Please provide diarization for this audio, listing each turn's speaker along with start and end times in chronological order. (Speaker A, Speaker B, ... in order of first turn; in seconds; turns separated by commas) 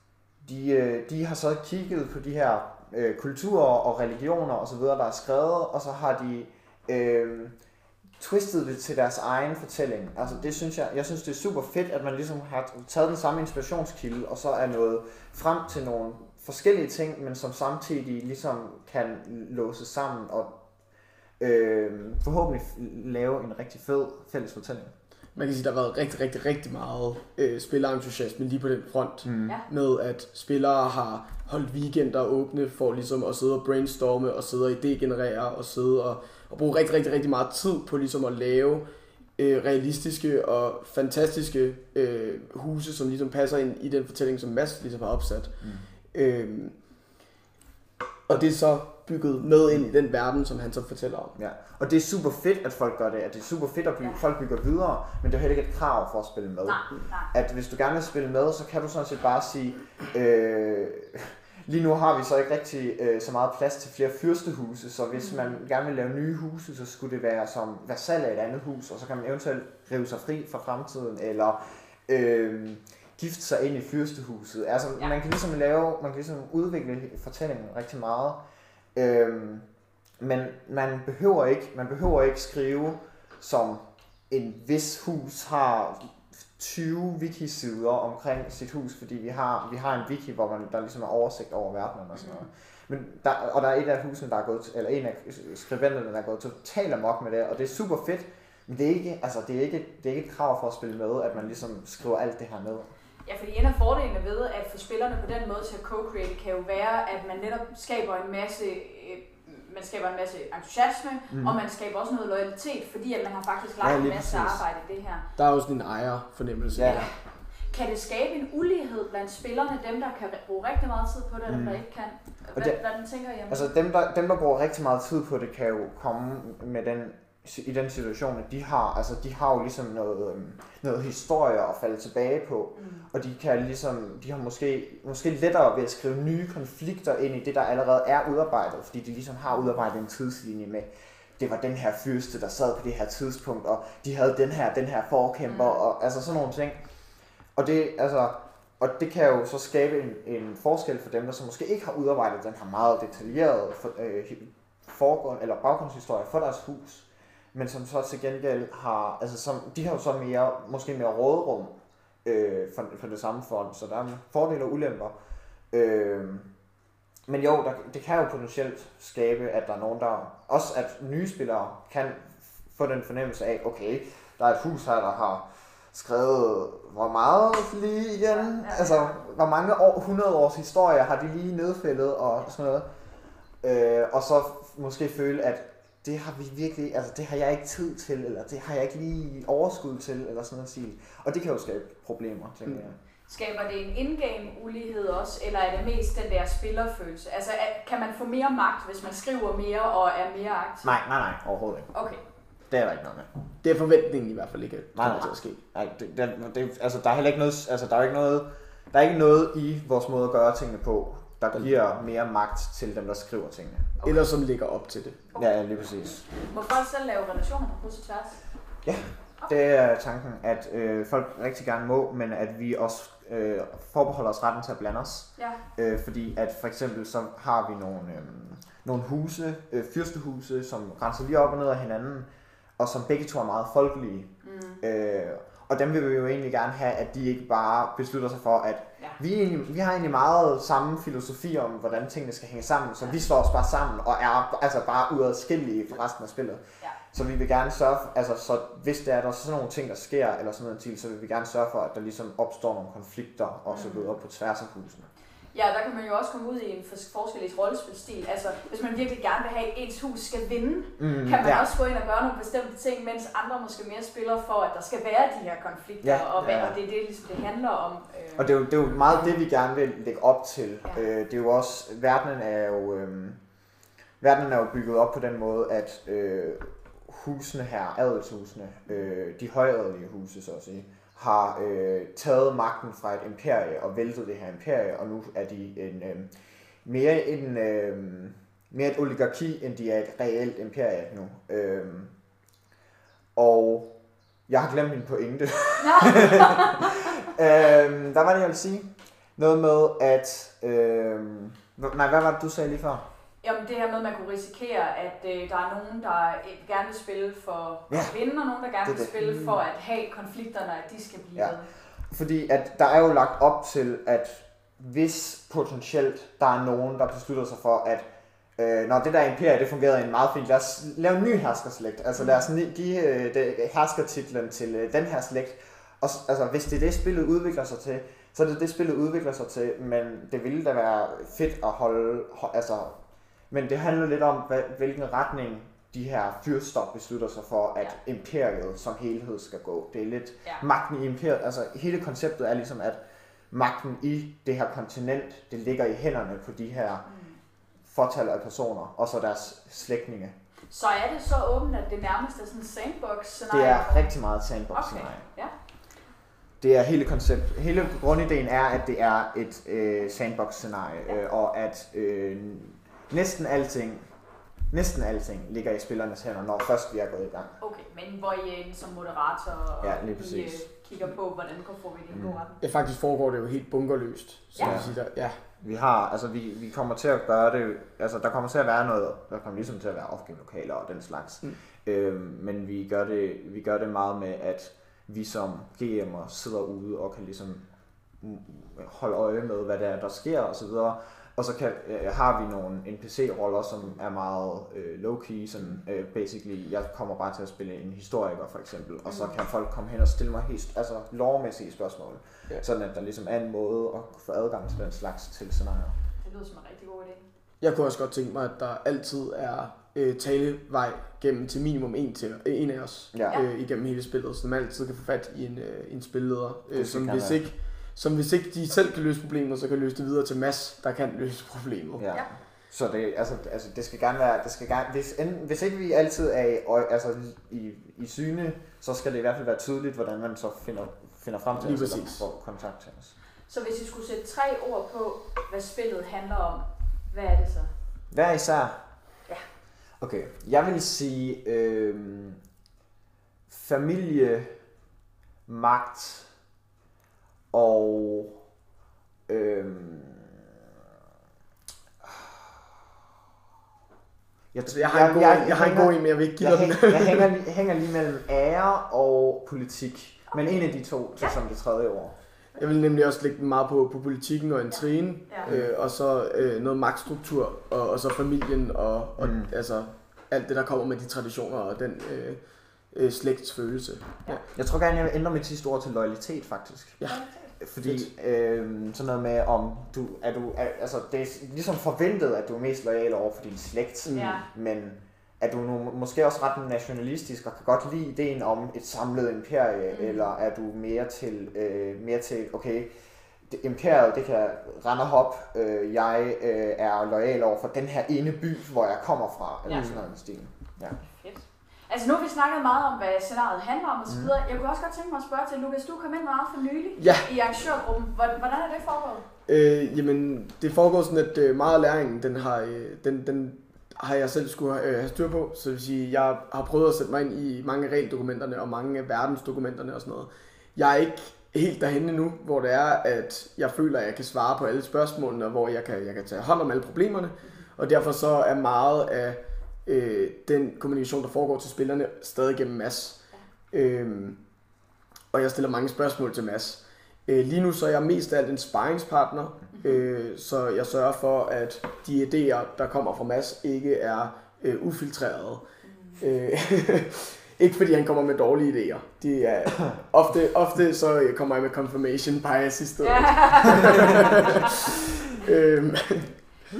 Speaker A: 0.4-7.5, Speaker A: 8.2-20.6, Speaker A: 21.4-24.9, Speaker B: 25.3-38.8, Speaker A: 29.2-29.6, Speaker B: 39.4-46.8, Speaker A: 45.6-45.9, Speaker B: 48.3-51.4, Speaker A: 51.4-78.4, Speaker C: 56.6-57.3, Speaker C: 65.1-65.6, Speaker A: 78.9-79.7, Speaker A: 80.2-102.9, Speaker C: 92.1-92.5, Speaker C: 103.2-115.2, Speaker A: 111.3-111.6, Speaker A: 113.8-114.6, Speaker B: 115.4-117.1, Speaker A: 116.7-117.0, Speaker C: 116.8-117.1, Speaker C: 117.7-123.7, Speaker A: 121.5-121.8, Speaker A: 123.5-146.8, Speaker C: 132.7-133.1, Speaker C: 145.5-145.8, Speaker A: 147.6-161.7, Speaker A: 162.2-165.1, Speaker A: 165.7-166.5, Speaker A: 167.3-182.8, Speaker C: 178.3-179.2, Speaker A: 183.6-193.0, Speaker C: 193.3-200.9, Speaker A: 200.8-201.9, Speaker C: 201.9-202.2, Speaker A: 202.7-203.3, Speaker B: 203.6-205.6, Speaker A: 204.9-213.9, Speaker C: 214.0-214.3, Speaker B: 214.0-215.2, Speaker A: 215.3-216.2, Speaker C: 216.1-218.4, Speaker A: 218.8-232.3, Speaker A: 232.8-255.1, Speaker C: 234.4-234.8, Speaker C: 253.7-254.1, Speaker C: 255.5-268.6, Speaker A: 261.0-261.7, Speaker A: 266.0-266.8, Speaker A: 268.4-273.4, Speaker A: 274.2-286.3, Speaker A: 286.8-292.1, Speaker A: 293.3-293.9, Speaker A: 294.5-303.0, Speaker C: 295.8-296.9, Speaker C: 303.4-311.7, Speaker A: 308.8-309.1, Speaker A: 311.4-318.1, Speaker A: 318.6-332.9, Speaker A: 333.5-343.0, Speaker A: 343.5-347.0, Speaker C: 347.0-347.4, Speaker A: 347.9-350.3, Speaker C: 350.7-354.1, Speaker A: 353.5-355.2, Speaker C: 354.7-355.5, Speaker A: 356.6-364.1, Speaker A: 364.7-367.5, Speaker C: 367.6-372.6, Speaker A: 369.8-370.7, Speaker A: 372.1-372.4, Speaker B: 372.6-375.4, Speaker C: 374.5-374.8, Speaker A: 374.6-375.0, Speaker A: 375.6-387.6, Speaker A: 388.2-405.9, Speaker C: 399.1-399.4, Speaker C: 406.2-407.2, Speaker B: 407.6-422.0, Speaker A: 413.1-413.4, Speaker A: 416.7-417.4, Speaker A: 422.0-433.1, Speaker B: 431.6-432.2, Speaker C: 433.5-437.7, Speaker A: 438.1-438.8, Speaker A: 440.0-442.4, Speaker A: 443.5-444.5, Speaker A: 445.5-446.3, Speaker A: 447.5-448.4, Speaker A: 449.3-450.4, Speaker A: 454.5-462.1, Speaker B: 454.7-457.3, Speaker C: 460.3-460.6, Speaker B: 462.6-474.4, Speaker C: 464.7-465.5, Speaker A: 465.4-465.7, Speaker A: 469.2-469.5, Speaker A: 474.5-492.9, Speaker C: 477.0-477.5, Speaker B: 477.8-478.1, Speaker B: 484.1-484.4, Speaker C: 484.1-484.4, Speaker C: 489.9-490.3, Speaker A: 493.5-501.0, Speaker C: 499.7-500.0, Speaker B: 499.7-500.0, Speaker C: 501.0-509.2, Speaker B: 507.0-507.3, Speaker B: 509.5-534.6, Speaker B: 535.3-545.6, Speaker C: 539.7-540.0, Speaker C: 545.8-546.2, Speaker B: 546.2-556.5, Speaker C: 553.0-554.2